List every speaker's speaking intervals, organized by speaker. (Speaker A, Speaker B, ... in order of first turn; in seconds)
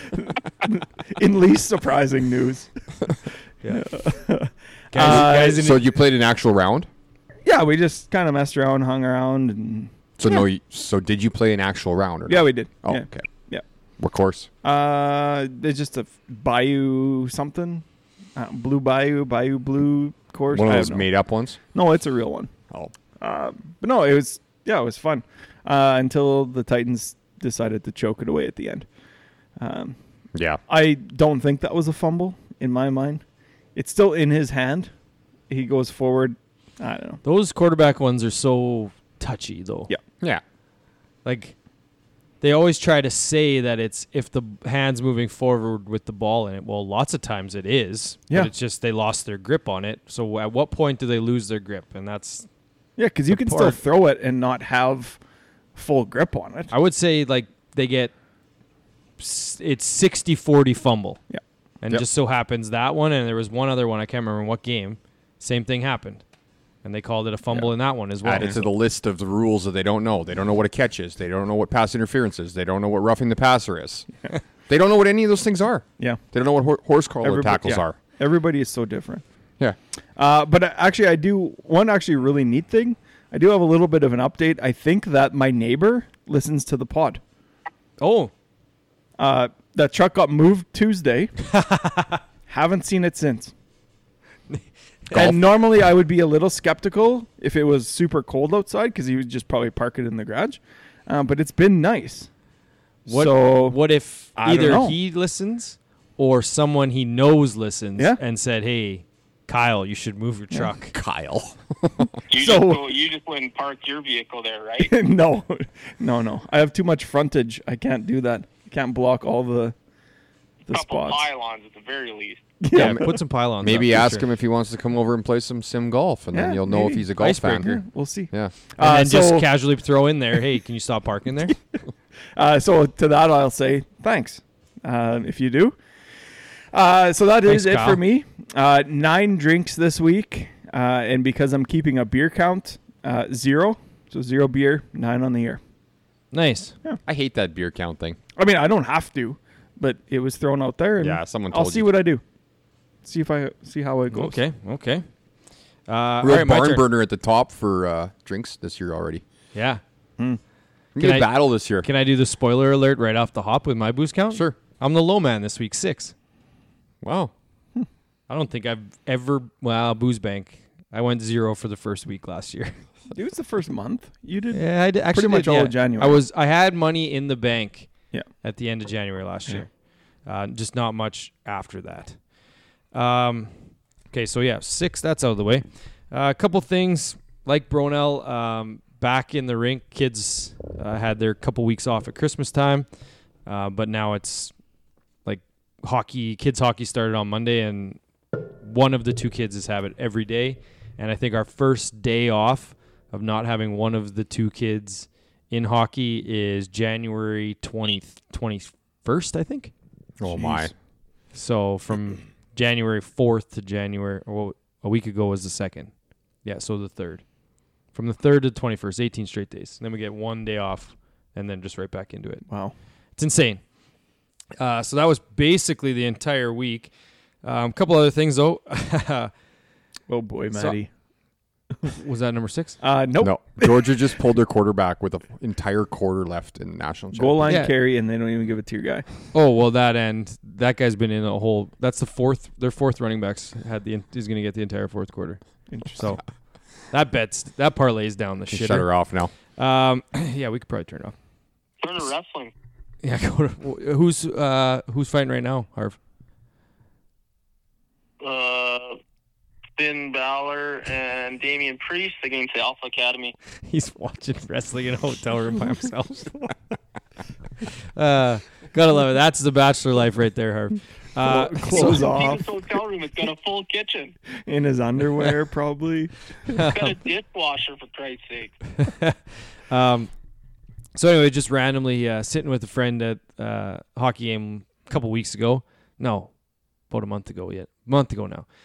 Speaker A: 0.3-2.7, 3.7-5.6, 7.4-9.9, 12.3-13.6, 14.6-17.8, 18.4-21.1, 21.7-22.5, 23.2-28.9, 29.6-30.0, 30.7-33.2, 33.8-34.9, 35.5-37.2, 53.0-55.2, 55.8-56.7, 77.2-79.2, 80.2-87.2, 89.2-91.3, 92.5-93.5, 95.1-102.3, 103.1-103.8, 104.4-105.0, 112.4-112.8, 114.8-119.8, 120.7-121.2, 122.6-123.2, 126.3-129.5, 132.3-135.8, 136.7-145.6, 148.4-152.2, 153.1-154.4, 173.1-176.2, 210.3-210.7, 222.5-222.7, 230.1-230.9, 232.8-233.9, 237.1-239.1, 245.7-246.2, 271.2-272.4, 274.5-276.2
Speaker B: 3.6-3.9, 4.9-5.8, 37.2-39.9, 41.2-41.6, 42.4-52.5, 53.3-53.8, 56.7-58.1, 59.2-61.2, 61.8-66.2, 66.8-68.7, 88.0-88.3, 91.5-92.2, 94.5-95.3, 103.1-111.0, 122.7-124.3, 127.2-127.8, 128.8-131.6, 137.4-138.0, 146.3-146.8, 154.1-155.1, 155.9-156.9, 159.5-159.8, 161.0-166.1, 168.3-172.8, 174.5-179.7, 180.2-182.2, 182.9-183.5, 184.1-192.9, 193.5-194.5, 195.2-198.0, 198.6-209.7, 211.3-215.9, 216.4-217.2, 217.9-222.5, 223.2-223.6, 224.6-226.9, 227.4-229.3, 230.5-230.8, 231.8-232.8, 237.5-237.8, 239.3-245.4, 245.9-246.2, 246.9-248.9, 249.6-251.2, 253.0-256.0, 263.7-266.5, 267.9-272.1, 276.5-277.0, 278.8-279.2, 279.7-280.1, 280.9-286.3, 286.9-288.5
Speaker C: 5.0-6.9, 10.2-13.3, 14.0-14.5, 20.5-21.6, 30.3-30.6, 68.2-74.1, 74.7-78.0, 110.9-112.1, 122.7-123.1, 123.6-128.6, 147.1-148.2, 151.0-151.9, 156.2-159.2, 160.9-161.9, 164.3-164.6, 167.0-167.3, 210.2-210.7, 233.2-237.5, 248.5-249.3
Speaker D: 112.3-114.9, 120.7-122.4, 251.8-252.5, 258.2-259.0, 259.8-263.4, 271.7-274.2, 276.7-278.6